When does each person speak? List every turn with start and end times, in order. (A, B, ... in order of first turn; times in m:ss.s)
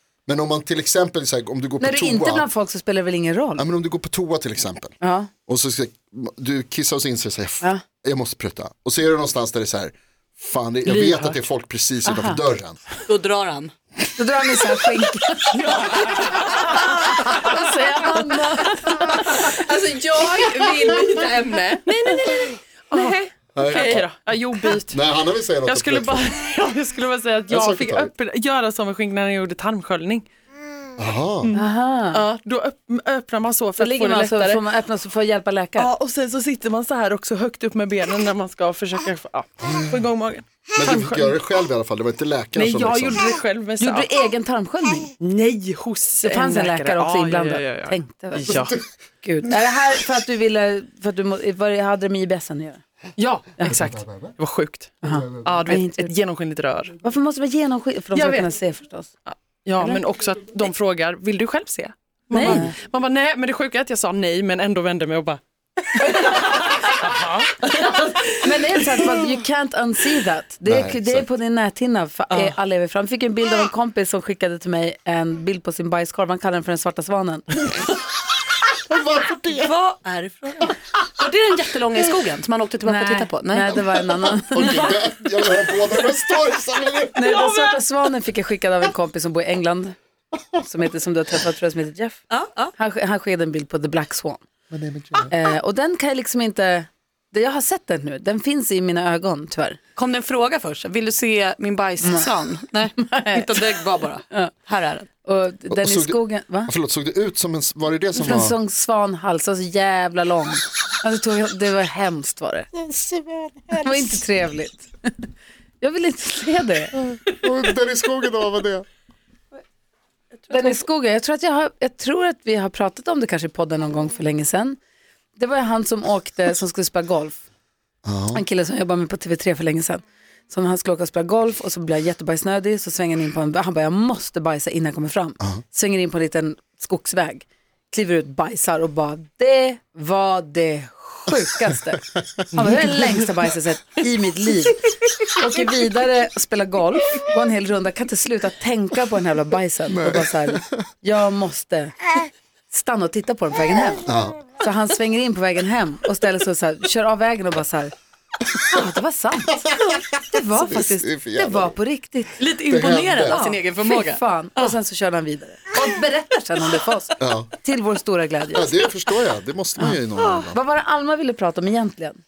0:00.3-0:02.5 A
0:01.8-0:03.6 B
0:03.6-0:05.0 A
0:05.0-0:05.3 B
0:05.5-0:12.8 A
0:12.0-0:12.4 B
0:13.1-0:13.7 C
0:14.2-0:19.4 B
0:15.7-0:16.4 C
0:19.3-0:21.9 D
0:21.9-0:25.0 E
0:22.9-0:24.1 D
0:23.6-0:26.3 A
0:25.6-0:30.3 E
0:27.5-0:28.1 A
0:31.0-0:31.6 A
0:31.4-0:34.6 E
0:31.5-0:32.2 B
0:33.8-0:35.9 B
0:35.8-0:41.3 E
0:39.6-0:40.0 A
0:40.8-0:43.3 A
0:42.5-0:44.1 E
0:43.8-0:45.1 B
0:45.2-0:48.8 E
0:46.2-0:48.7 B
0:49.2-0:52.8 B
0:53.2-0:56.9 E
0:53.6-0:53.8 B
0:53.7-0:54.3 A
0:55.0-0:56.1 B
0:55.0-0:55.5 A
0:57.0-0:59.1 B
0:58.1-0:58.5 E
0:59.3-1:05.4 E
0:59.8-1:00.0 B
1:02.3-1:02.7 B
1:02.4-1:02.7 C
1:06.0-1:09.1 E
1:08.4-1:17.6 B
1:10.6-1:11.3 A
1:18.9-1:19.7 A
1:19.6-1:23.8 C
1:22.8-1:24.9 B
1:24.5-1:27.6 A
1:27.2-1:30.0 B
1:30.6-1:32.2 B
1:32.3-1:32.7 C
1:32.8-1:34.4 B
1:34.7-1:35.3 A
1:35.3-1:39.8 B
1:40.0-1:45.1 C
1:42.0-1:42.3 B
1:43.0-1:43.6 B
1:45.2-1:46.7 B
1:45.7-1:48.6 A
1:48.2-1:52.7 B
1:53.7-1:55.2 B
1:55.8-1:57.0 B
1:57.1-1:58.9 A
2:00.5-2:04.8 B
2:05.4-2:07.4 B
2:08.0-2:08.4 A
2:08.3-2:32.0 B
2:29.9-2:30.8 A
2:32.7-2:34.0 B
2:34.1-2:34.4 A
2:34.6-2:37.9 B
2:38.6-2:42.4 B
2:40.5-2:41.7 A
2:42.4-2:44.8 C
2:42.7-2:43.4 A
2:43.2-2:48.9 B
2:47.2-2:47.5 A
2:48.5-2:50.6 A
2:50.5-2:52.2 B